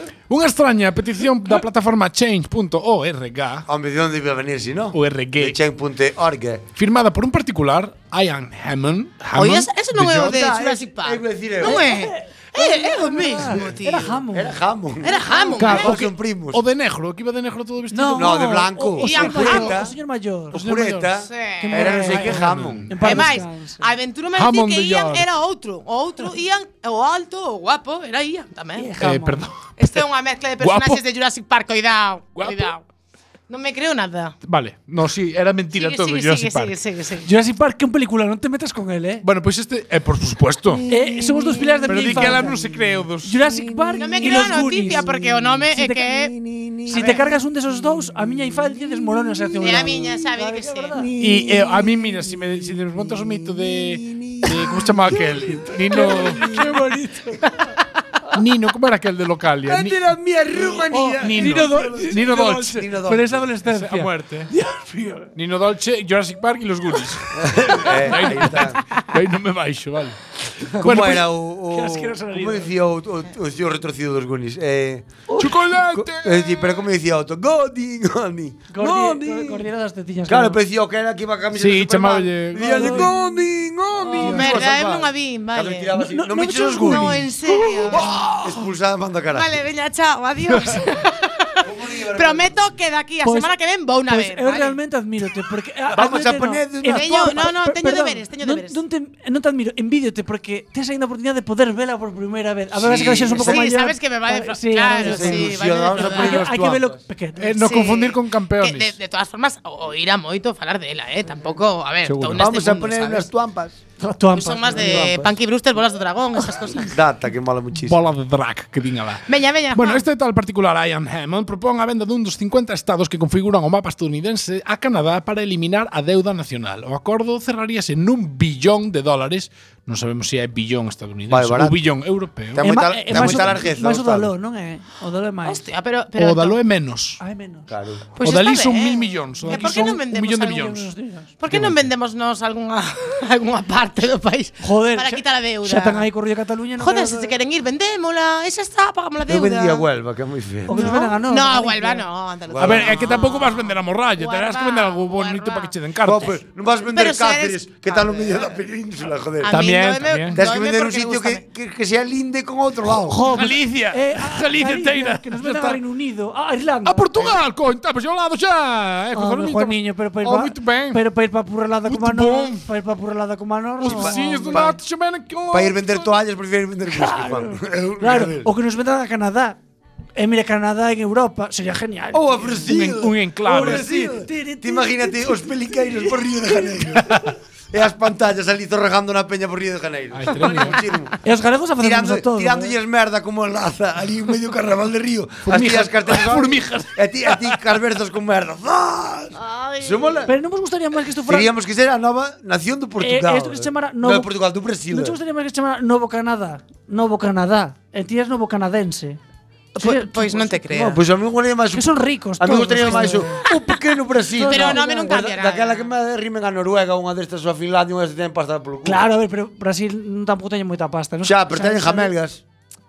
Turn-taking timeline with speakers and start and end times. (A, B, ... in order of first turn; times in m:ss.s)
0:00.3-0:03.6 A
0:03.7-0:06.6 B
0:04.9-0:05.6 A
0:06.8-0:10.4 A
0:09.3-0:14.2 C
0:10.2-0:11.9 B
0:11.6-0:14.6 D
0:14.3-0:16.6 B
0:15.0-0:16.0 C
0:15.5-0:18.4 A
0:17.9-0:20.6 D
0:18.1-0:19.9 B
0:19.0-0:19.8 C
0:20.5-0:22.9 B
0:20.5-0:21.1 A
0:21.3-0:22.0 C
0:21.6-0:23.8 D
0:21.9-0:23.4 A
0:23.0-0:28.9 C
0:24.4-0:25.3 A
0:28.8-0:29.5 D
0:29.0-0:29.9 A
0:29.8-0:32.8 C
0:30.6-0:31.0 A
0:32.4-0:32.7 A
0:33.5-0:34.3 C
0:34.4-0:36.7 A
0:35.7-0:37.3 C
0:37.2-0:39.2 D
0:39.2-0:40.8 A
0:40.7-0:42.7 B
0:40.9-0:45.1 D
0:41.9-0:43.4 A
0:43.4-0:47.2 B
0:44.0-0:46.3 C
0:45.7-0:46.1 D
0:46.9-0:51.1 D
0:46.9-0:47.3 C
0:48.9-0:50.0 B
0:49.6-0:51.1 C
0:50.9-0:56.6 B
0:51.2-0:56.9 A
0:55.9-0:57.4 D
0:58.3-1:00.0 A
0:59.6-1:03.4 B
1:00.9-1:05.3 D
1:01.2-1:02.8 A
1:03.6-1:04.5 A
1:05.4-1:10.2 A
1:07.3-1:08.8 B
1:10.8-1:11.3 A
1:10.8-1:15.2 B
1:11.7-1:12.8 D
1:15.4-1:16.4 A
1:15.9-1:19.6 B
1:18.7-1:20.6 D
1:20.3-1:27.2 B
1:21.5-1:23.1 A
1:22.6-1:23.1 D
1:24.1-1:24.6 D
1:24.1-1:25.9 C
1:25.9-1:28.0 D
1:26.6-1:28.2 C
1:28.2-1:29.5 B
1:29.3-1:34.8 C
1:31.6-1:32.6 B
1:33.2-1:33.5 D
1:34.0-1:48.0 D
1:35.9-1:37.5 B
1:36.8-1:38.8 C
1:42.7-1:43.6 B
1:43.3-1:46.4 C
1:44.9-1:47.0 B
1:47.4-1:48.9 A
1:47.6-1:53.3 C
1:52.0-1:52.5 A
1:52.3-1:53.8 B
1:54.0-1:55.2 D
1:54.3-1:56.9 C
1:54.7-1:55.3 B
1:56.8-1:58.0 B
1:57.8-2:13.6 A
1:59.3-2:00.0 C
2:11.3-2:11.8 B
2:12.5-2:14.3 B
2:12.6-2:15.6 D
2:15.4-2:16.6 C
2:16.2-2:17.2 A
2:17.2-2:17.7 D
2:17.7-2:18.0 B
2:18.2-2:20.8 C
2:18.2-2:20.9 A
2:19.4-2:21.3 D
2:21.4-2:26.1 C
2:24.6-2:27.3 D
2:26.8-2:29.8 C
2:29.2-2:31.0 B
2:30.7-2:32.0 D
2:30.7-2:35.7 C
2:32.5-2:33.2 B
2:32.6-2:36.3 A
2:36.0-2:39.6 B
2:36.8-2:38.5 C
2:39.4-2:41.4 C
2:39.5-2:40.4 A
2:40.3-2:43.2 B
2:43.1-2:47.3 D
2:43.3-2:45.8 A
2:46.8-2:51.0 A
2:49.1-2:54.8 D
2:51.8-2:52.7 A
2:53.8-2:56.1 A
2:53.9-2:54.7 B
2:55.5-2:58.5 B
2:56.9-2:59.6 D
3:00.2-3:02.8 D
3:02.1-3:07.2 B
3:02.6-3:03.9 A
3:03.4-3:06.1 D
3:07.7-3:11.1 B
3:10.1-3:10.8 A
3:11.2-3:12.7 D
3:11.8-3:20.3 B
3:15.4-3:17.5 A
3:20.2-3:21.5 D
3:21.3-3:25.2 B
3:23.0-3:24.3 D
3:24.9-3:29.2 D
3:29.8-3:31.0 C
3:29.8-3:31.0 D
3:30.8-3:39.0 B
3:31.7-3:33.4 D
3:34.3-3:35.3 D
3:34.4-3:35.9 C
3:38.8-3:42.1 D
3:41.2-3:42.4 B